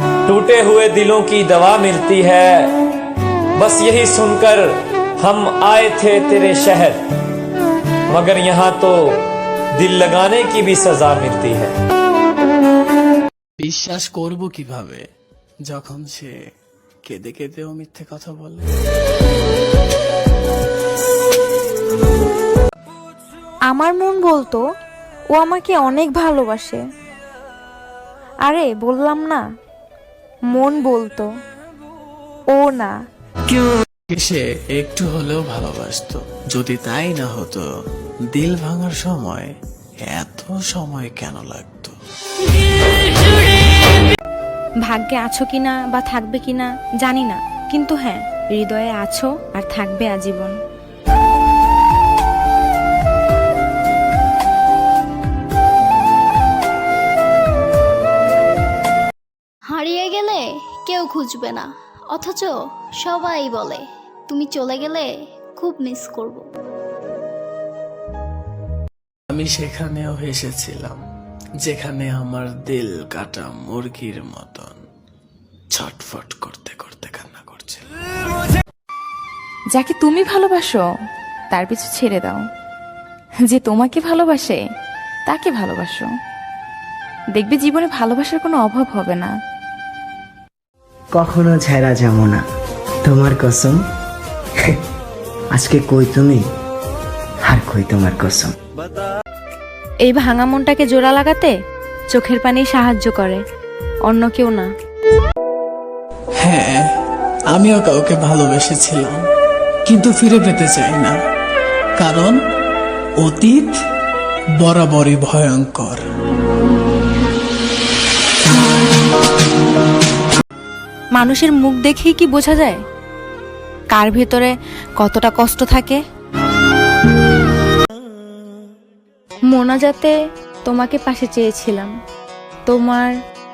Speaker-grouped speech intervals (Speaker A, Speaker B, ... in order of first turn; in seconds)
Speaker A: 0.2-2.7, 3.5-7.0, 8.1-9.1, 9.7-11.7
Speaker B: 13.6-15.1, 15.6-16.4, 17.0-18.8, 34.1-37.7, 38.3-39.5, 40.0-42.0, 69.3-71.0, 71.6-74.8, 75.7-77.9, 106.4-106.8, 107.5-109.2, 109.8-111.2, 112.0-112.4, 113.2-113.8, 114.6-116.0
Speaker C: 23.7-24.6, 25.3-26.8, 28.4-29.4, 30.5-31.3, 32.5-32.9, 44.8-50.5, 100.0-101.5, 102.1-103.4, 104.0-104.7, 121.1-122.8, 123.9-126.0, 129.5-131.9, 132.7-133.1
Speaker D: 59.7-66.5
Speaker E: 79.7-80.8, 81.5-82.4, 83.5-84.6, 85.3-86.0, 87.3-89.3
Speaker F: 91.2-92.4, 93.0-93.8, 95.5-96.4, 97.5-98.5